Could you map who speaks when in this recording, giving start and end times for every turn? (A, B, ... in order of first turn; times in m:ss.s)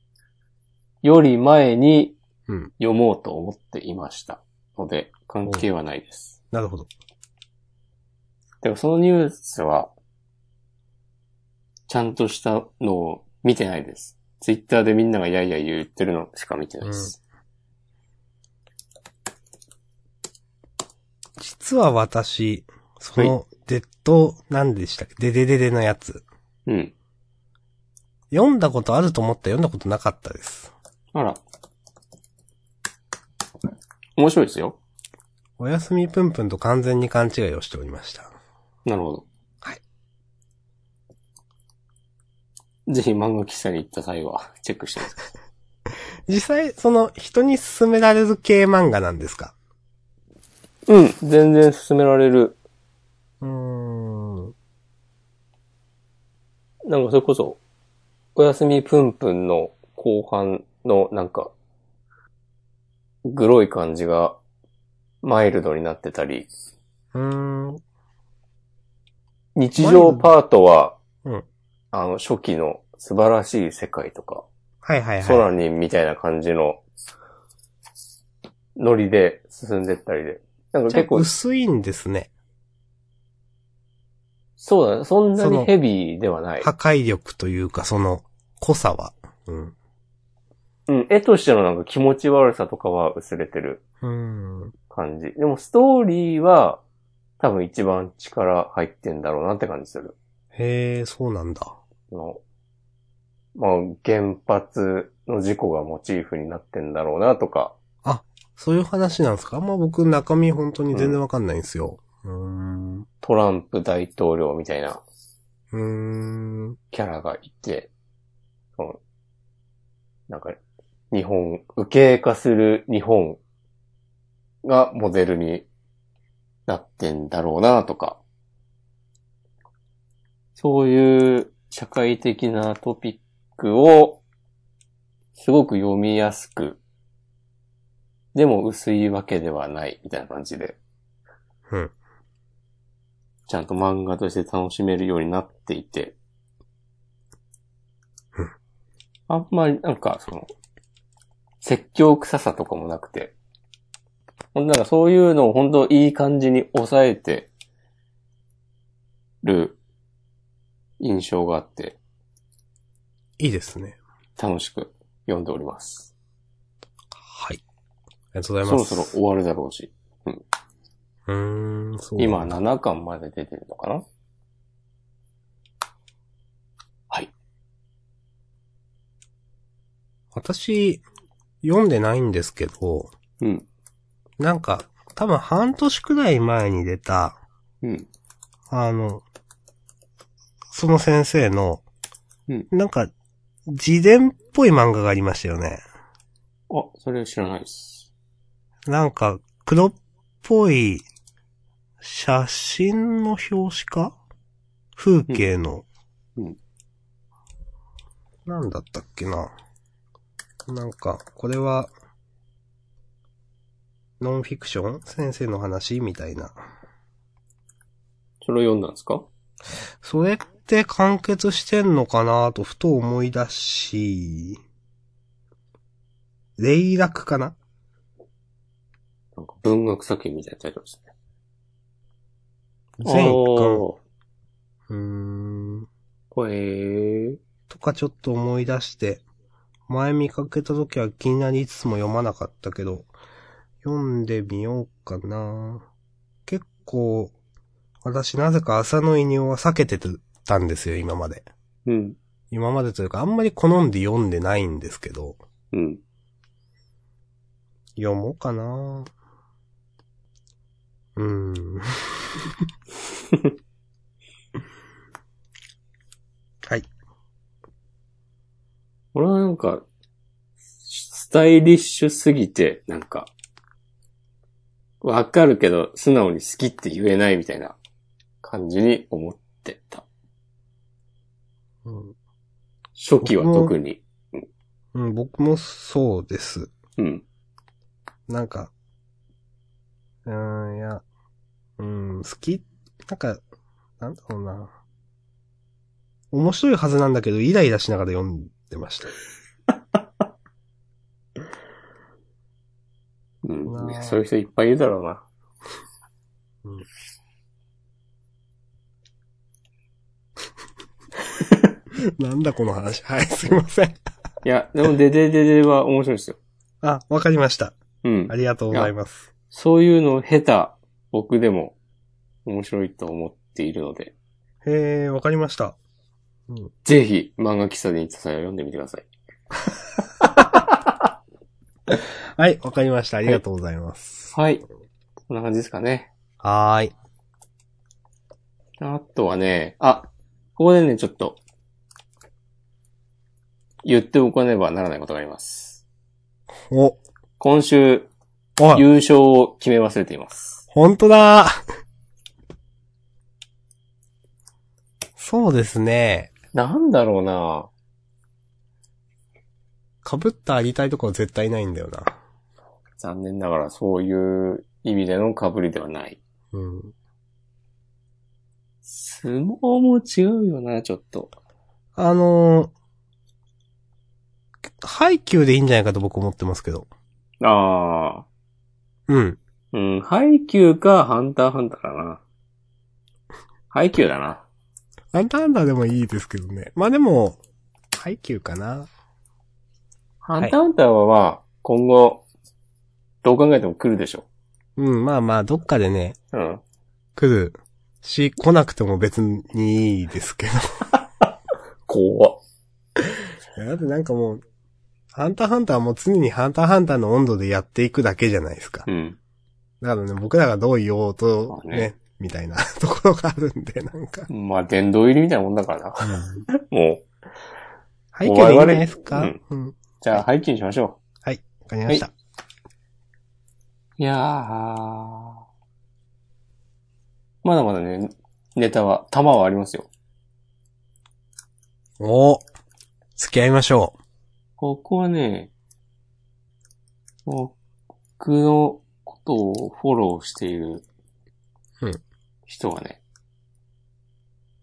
0:01.0-0:02.2 A
0:02.8-0:06.4 A
0:06.5-0:06.9 B
0:08.6-0:09.9 A
0:11.9-0:17.2 A
0:16.8-0:17.1 B
0:21.4-0:26.2 B
0:26.7-0:26.9 A
0:28.3-0:30.7 B
0:31.1-0:31.4 A
0:34.2-0:34.8 A
0:35.6-0:38.3 B
0:38.9-0:39.3 A
0:42.9-0:45.3 A
0:46.3-0:49.5 B
0:50.9-0:52.6 A
0:53.4-0:54.5 B
0:56.9-0:57.6 A
0:58.4-1:01.5 A
1:03.2-1:04.4 A
1:05.2-1:06.5 A
1:07.1-1:07.8 B
1:09.6-1:11.0 A
1:09.8-1:10.3 B
1:11.9-1:14.4 A
1:14.8-1:15.5 B
1:15.2-1:16.8 A
1:18.8-1:21.3 A
1:20.9-1:22.3 B
1:24.6-1:26.7 A
1:25.4-1:25.7 B
1:26.6-1:29.7 B
1:30.9-1:33.8 A
1:34.0-1:34.7 B
1:34.9-1:36.8 A
1:37.4-1:40.2 A
1:40.6-1:41.8 B
1:42.1-1:42.4 A
1:43.6-1:47.8 A
1:48.0-1:53.1 B
1:50.9-1:51.2 A
1:53.2-1:55.0 A
1:55.7-1:56.8 B
1:56.9-1:57.9 A
2:00.3-2:00.6 A
2:01.1-2:03.4 A
2:04.6-2:05.7 A
2:06.7-2:08.2 A
2:10.6-2:14.2 A
2:15.4-2:16.8 A
2:18.4-2:20.8 A
2:23.5-2:26.2 A
2:29.3-2:30.5 A
2:31.6-2:33.3 A
2:34.6-2:37.5 A
2:39.4-2:39.8 A
2:41.0-2:42.0 A
2:43.4-2:44.0 B
2:44.4-2:46.1 A
2:47.2-2:47.6 B
2:48.3-2:49.1 B
2:48.6-2:50.4 A
2:51.3-2:52.6 B
2:52.2-2:54.0 A
3:00.3-3:01.0 B
3:01.6-3:03.1 B
3:04.4-3:07.4 B
3:08.7-3:09.2 B
3:10.7-3:11.8 B
3:12.7-3:13.1 B
3:13.7-3:15.8 B
3:16.7-3:18.1 A
3:18.9-3:21.0 B
3:22.0-3:24.2 B
3:25.0-3:25.8 B
3:28.5-3:29.5 B
3:30.7-3:31.9 B
3:34.2-3:36.6 B
3:38.4-3:39.3 A
3:40.0-3:44.6 B
3:46.6-3:47.6 B
3:49.4-3:51.1 A
3:53.0-3:53.8 B
3:53.0-3:54.0 A
3:54.9-3:55.9 B
3:56.3-3:57.4 A
3:57.7-3:59.2 B
3:59.9-4:03.1 B
4:03.8-4:05.8 B
4:06.5-4:07.3 B
4:08.0-4:11.5 B
4:11.9-4:12.2 A
4:12.5-4:15.4 B
4:15.7-4:16.0 A
4:18.0-4:19.1 B
4:21.2-4:22.5 B
4:29.1-4:29.8 A
4:30.8-4:33.3 A
4:35.0-4:37.8 A
4:38.4-4:40.0 A
4:41.8-4:42.2 B
4:43.0-4:44.4 A
4:43.2-4:43.7 B
4:44.9-4:46.7 B
4:47.0-4:47.2 A
4:48.3-4:48.7 B
4:50.2-4:51.0 B
4:51.8-4:53.4 B
4:54.0-4:54.7 B
4:56.3-4:59.1 B
5:03.4-5:05.2 A
5:03.7-5:04.2 B
5:11.9-5:14.0 B
5:14.4-5:16.4 A
5:16.8-5:17.8 B
5:18.0-5:18.9 A
5:18.3-5:19.3 B
5:19.5-5:21.8 A
5:22.5-5:24.1 A
5:24.6-5:25.8 B
5:26.8-5:29.1 A
5:32.4-5:34.3 B
5:34.3-5:34.6 A
5:35.3-5:36.1 A
5:36.4-5:36.9 B
5:38.8-5:41.4 A
5:43.8-5:45.8 A
5:46.7-5:47.0 B
5:47.4-5:48.1 A
5:48.7-5:50.6 A
5:50.7-5:51.6 B
5:55.2-5:56.3 B
5:56.5-5:57.7 A
6:00.0-6:02.2 B
6:03.0-6:06.2 A
6:06.5-6:06.9 B
6:08.8-6:11.3 A
6:12.0-6:12.7 B
6:14.8-6:16.9 B
6:17.4-6:18.3 A
6:19.1-6:19.4 B
6:19.7-6:22.2 A
6:23.7-6:24.4 A
6:25.1-6:27.4 B
6:27.9-6:28.9 B
6:30.2-6:32.2 A
6:33.2-6:34.3 A
6:34.8-6:36.2 B
6:36.3-6:36.6 A
6:37.2-6:40.7 B
6:41.9-6:42.4 A
6:43.6-6:44.4 B
6:45.1-6:48.9 B
6:48.9-6:49.2 A
6:49.8-6:54.3 B
6:51.5-6:51.9 A
6:54.3-6:57.1 A
6:56.0-6:56.4 B
6:58.1-7:00.2 B
6:58.2-6:59.4 A
7:00.0-7:01.0 A
7:01.2-7:02.1 B
7:04.0-7:05.4 A
7:07.4-7:09.9 A
7:12.0-7:12.4 B
7:13.2-7:14.0 B
7:14.6-7:15.5 A
7:17.3-7:17.6 A
7:18.2-7:20.8 A
7:22.5-7:23.0 A